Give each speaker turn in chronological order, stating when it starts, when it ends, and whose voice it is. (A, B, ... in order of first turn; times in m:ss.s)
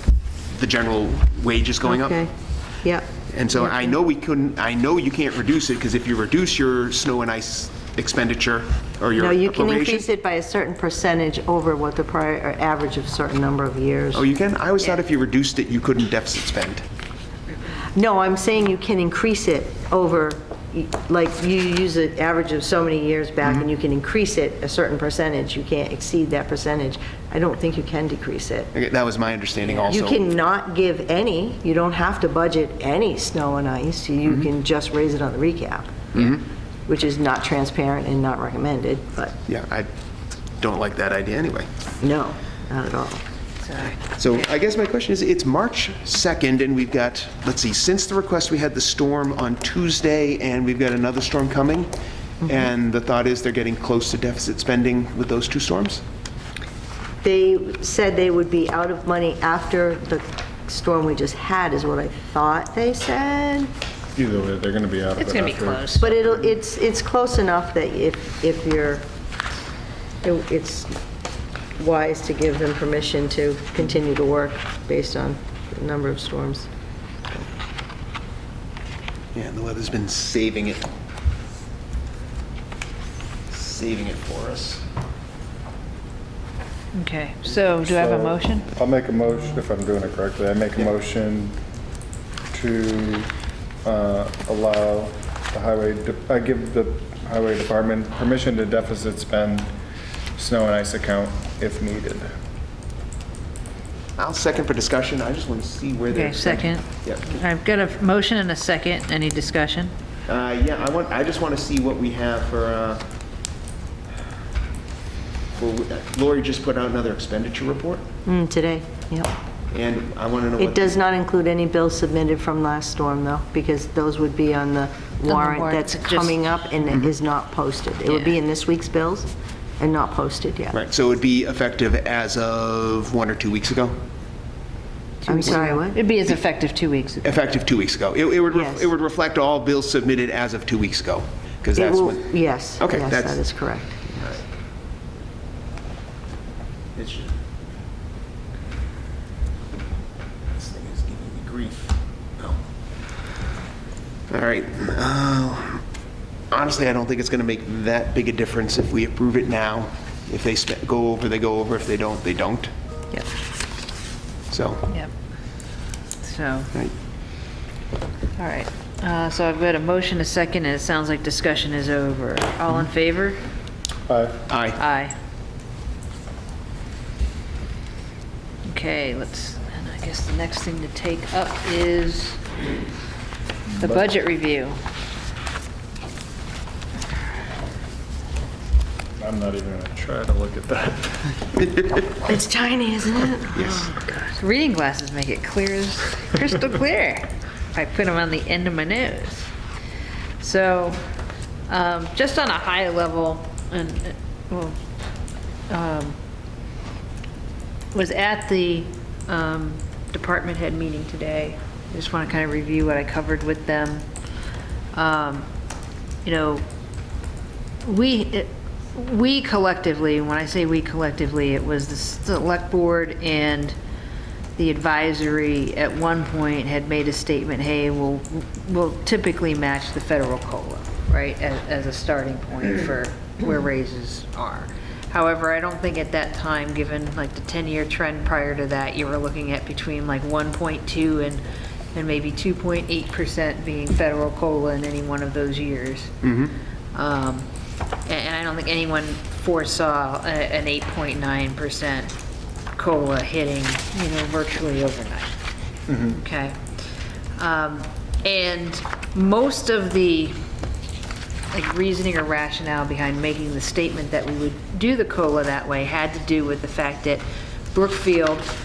0:00.5-0:02.2 A
0:01.8-0:02.3 B
0:02.8-0:04.0 B
0:03.3-0:10.0 A
0:09.2-0:14.3 B
0:14.1-0:16.8 A
0:18.0-0:28.7 B
0:28.7-0:30.2 A
0:29.7-0:36.1 B
0:36.1-0:36.4 A
0:36.9-0:39.4 B
0:39.5-0:39.9 A
0:40.6-0:41.7 A
0:42.0-0:43.2 B
0:43.6-0:44.4 C
0:44.2-0:56.0 A
0:57.2-1:03.7 B
1:04.1-1:06.0 D
1:05.2-1:06.3 C
1:06.0-1:09.0 B
1:10.2-1:10.9 B
1:11.8-1:16.7 B
1:19.3-1:20.9 A
1:23.5-1:24.8 A
1:26.9-1:28.7 C
1:27.8-1:31.6 D
1:32.5-1:33.3 D
1:33.8-1:39.8 D
1:40.4-1:42.4 D
1:44.2-1:47.3 A
1:46.1-1:49.9 C
1:50.3-1:53.0 A
1:55.5-1:58.0 A
1:58.3-1:59.3 B
1:59.7-2:01.0 A
2:00.6-2:10.8 B
2:05.2-2:06.6 C
2:06.9-2:07.1 A
2:08.1-2:08.4 C
2:10.7-2:14.0 A
2:15.2-2:17.4 C
2:15.3-2:16.0 B
2:17.2-2:23.4 A
2:18.5-2:18.9 B
2:21.8-2:24.0 B
2:24.1-2:24.4 A
2:27.0-2:27.4 A
2:30.5-2:32.6 A
2:34.3-2:35.8 A
2:36.5-2:42.7 A
2:44.5-2:44.9 A
2:46.2-2:46.7 C
2:48.4-2:53.4 C
2:54.1-2:54.5 D
2:54.5-2:54.8 A
2:54.8-2:55.2 C
2:58.7-3:02.4 C
3:03.7-3:04.0 D
3:03.8-3:04.8 C
3:09.2-3:11.8 D
3:12.2-3:13.9 B
3:13.5-3:13.9 A
3:14.0-3:19.5 C
3:20.4-3:21.0 C
3:21.7-3:24.8 C
3:25.7-3:26.2 C
3:27.9-3:34.0 C
3:34.9-3:35.5 C
3:36.2-3:36.6 C
3:37.8-3:43.8 C
3:44.6-4:01.4 C
4:01.9-4:06.1 C
4:06.2-4:06.6 A
4:06.9-4:07.5 C
4:08.1-4:12.1 C
4:12.8-4:15.4 C
4:15.9-4:16.6 C
4:17.4-4:20.4 C
4:21.5-4:28.5 C